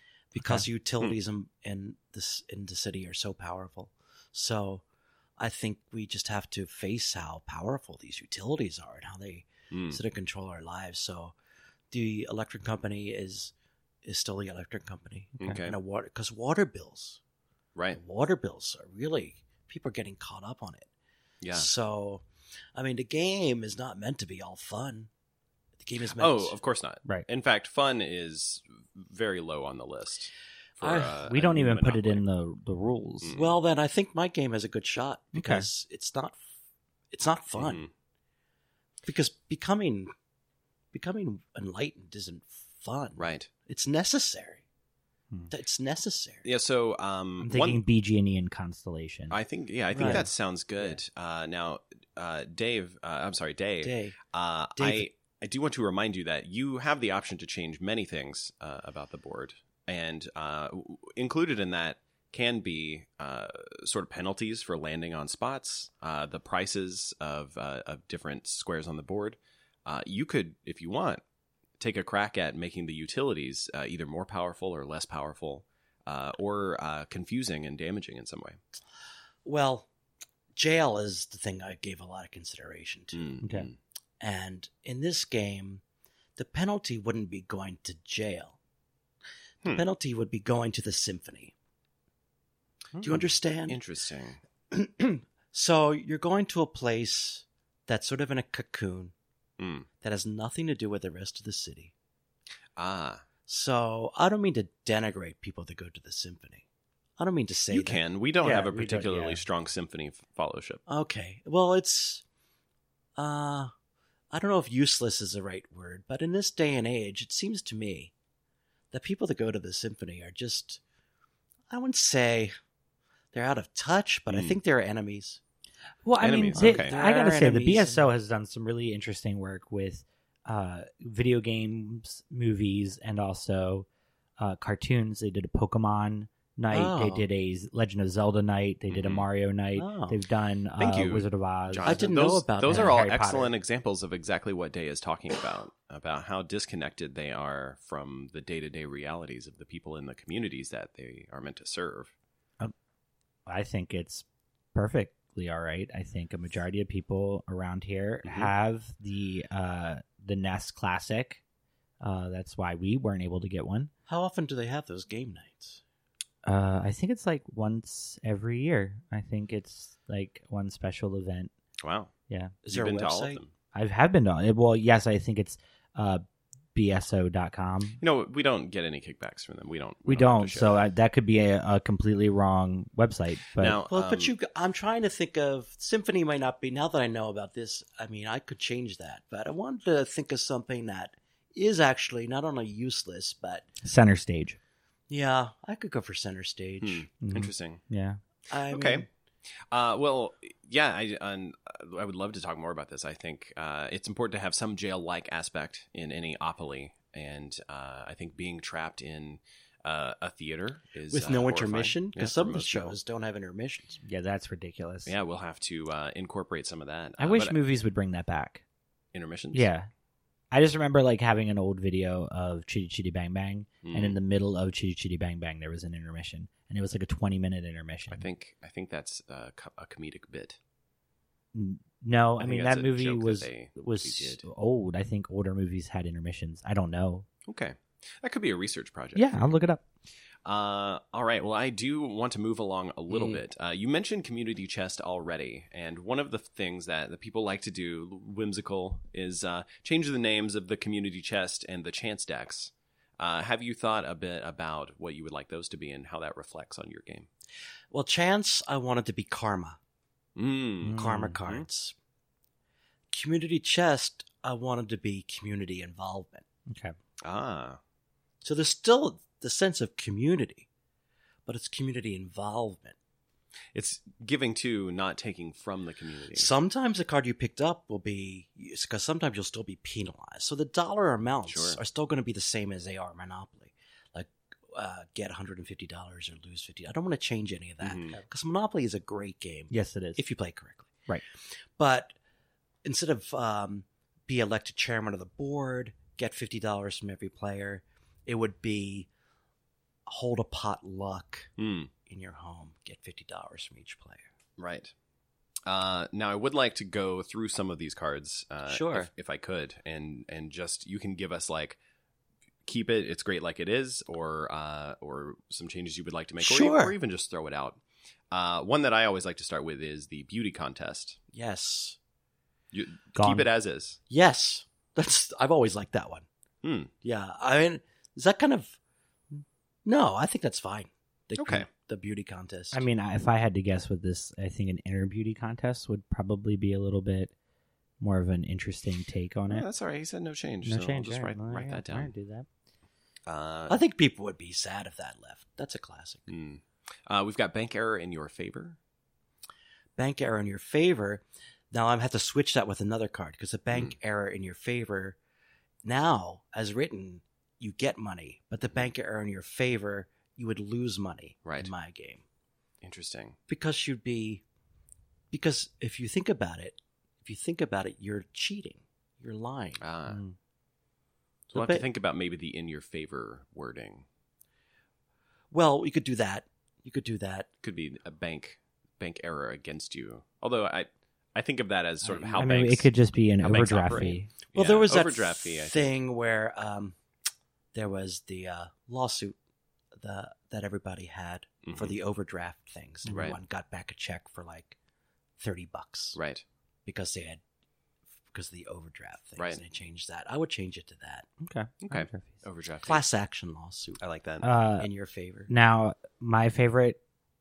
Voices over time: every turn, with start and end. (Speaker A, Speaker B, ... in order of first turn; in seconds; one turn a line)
Speaker A: 0.3-4.8
Speaker B: 0.4-0.7
Speaker A: 5.4-11.3
Speaker C: 9.7-10.0
Speaker A: 11.9-13.5
Speaker A: 14.0-17.2
Speaker C: 15.4-15.8
Speaker C: 17.8-18.0
Speaker A: 17.9-20.9
Speaker C: 21.4-21.7
Speaker A: 21.5-22.2
Speaker A: 22.8-25.1
Speaker A: 25.8-26.6
Speaker C: 26.2-32.2
Speaker A: 30.8-31.2
Speaker B: 31.3-33.3
Speaker C: 33.2-33.6
Speaker A: 33.3-36.4
Speaker B: 35.4-35.7
Speaker A: 37.1-37.9
Speaker C: 37.6-37.9
Speaker A: 39.0-40.1
Speaker A: 40.9-44.6
Speaker C: 43.2-43.5
Speaker A: 45.5-46.5
Speaker C: 46.5-47.8
Speaker B: 47.4-49.4
Speaker C: 49.3-71.2
Speaker A: 49.9-50.3
Speaker A: 53.8-54.2
Speaker A: 54.8-55.1
Speaker C: 71.8-78.6
Speaker A: 79.5-79.9
Speaker A: 80.5-83.4
Speaker C: 83.1-83.8
Speaker A: 84.2-85.8
Speaker A: 86.4-88.6
Speaker A: 89.7-91.5
Speaker C: 93.0-94.4
Speaker A: 93.0-93.8
Speaker A: 94.7-99.1
Speaker C: 99.6-99.9
Speaker A: 100.0-101.9
Speaker C: 102.8-103.3
Speaker A: 103.5-106.6
Speaker A: 107.2-108.0
Speaker C: 107.7-110.8
Speaker B: 108.4-109.4
Speaker A: 110.9-112.2
Speaker A: 113.2-113.7
Speaker A: 114.3-118.1
Speaker A: 118.9-120.8
Speaker A: 121.7-122.5
Speaker A: 123.3-125.4
Speaker C: 124.3-124.6
Speaker B: 126.0-133.9
Speaker C: 126.2-127.0
Speaker A: 126.5-128.1
Speaker B: 134.4-143.5
Speaker A: 136.7-137.3
Speaker C: 138.9-139.3
Speaker A: 139.8-140.2
Speaker C: 140.8-152.1
Speaker A: 141.8-143.0
Speaker B: 153.5-161.4
Speaker C: 158.2-158.5
Speaker B: 162.0-163.9
Speaker A: 164.1-165.8
Speaker B: 166.4-171.5
Speaker C: 171.8-172.1
Speaker B: 172.3-172.5
Speaker C: 172.6-173.5
Speaker A: 172.7-173.4
Speaker B: 173.7-176.2
Speaker B: 176.8-178.0
Speaker C: 178.0-180.8
Speaker B: 180.1-183.8
Speaker C: 183.6-184.3
Speaker A: 183.9-193.7
Speaker B: 193.8-194.6
Speaker A: 195.1-197.1
Speaker C: 196.8-197.8
Speaker B: 197.2-198.2
Speaker A: 198.5-199.1
Speaker C: 198.7-199.1
Speaker C: 199.7-213.0
Speaker A: 211.1-214.0
Speaker B: 214.0-215.1
Speaker C: 215.1-217.6
Speaker B: 217.2-218.6
Speaker C: 219.1-219.7
Speaker B: 219.5-219.9
Speaker B: 220.5-228.2
Speaker C: 223.8-224.2
Speaker C: 228.1-230.6
Speaker B: 231.5-237.3
Speaker C: 232.4-234.5
Speaker C: 237.5-239.5
Speaker B: 239.2-239.8
Speaker C: 240.4-257.3
Speaker A: 257.9-259.8
Speaker C: 260.4-261.6
Speaker B: 260.8-261.4
Speaker A: 261.0-261.9
Speaker A: 263.1-266.4
Speaker B: 266.7-266.9
Speaker C: 267.2-267.8
Speaker A: 268.4-270.7
Speaker A: 271.5-272.9
Speaker C: 273.7-276.5
Speaker A: 276.3-291.0
Speaker C: 281.5-281.8
Speaker C: 287.8-288.2
Speaker B: 289.7-290.2
Speaker A: 291.8-292.1
Speaker A: 292.8-299.1
Speaker A: 300.1-301.5
Speaker C: 301.6-301.9
Speaker A: 302.1-304.3
Speaker C: 304.6-304.9
Speaker C: 305.7-311.8
Speaker A: 308.7-309.1
Speaker C: 312.6-317.8
Speaker A: 316.4-316.9
Speaker C: 318.3-321.2
Speaker A: 321.3-322.0
Speaker C: 322.7-324.0
Speaker B: 323.2-323.5
Speaker A: 324.1-326.3
Speaker C: 326.6-326.9
Speaker A: 327.0-328.8
Speaker A: 329.4-332.9
Speaker C: 331.4-331.7
Speaker B: 332.7-337.3
Speaker B: 338.0-339.7
Speaker C: 339.5-342.1
Speaker B: 340.6-342.5
Speaker C: 343.3-343.8
Speaker A: 343.7-346.3
Speaker C: 346.3-348.8
Speaker A: 350.0-355.2
Speaker A: 355.8-362.2
Speaker C: 361.4-361.7
Speaker C: 362.8-363.4
Speaker A: 363.5-364.4
Speaker A: 365.3-369.8
Speaker C: 369.8-370.2
Speaker B: 370.1-370.4
Speaker A: 371.5-371.9
Speaker C: 371.5-374.1
Speaker A: 375.5-377.5
Speaker C: 377.6-385.9
Speaker B: 382.4-384.3
Speaker A: 384.5-387.0
Speaker A: 387.7-389.4
Speaker A: 390.0-394.8
Speaker C: 391.6-392.0
Speaker C: 393.1-393.4
Speaker A: 395.4-396.2
Speaker C: 396.1-396.4
Speaker A: 396.9-397.4
Speaker A: 398.3-401.3
Speaker C: 399.4-399.6
Speaker B: 401.4-402.4
Speaker C: 401.8-403.0
Speaker A: 402.9-404.0
Speaker C: 404.0-404.5
Speaker B: 404.4-404.9
Speaker A: 404.8-405.5
Speaker B: 405.5-407.0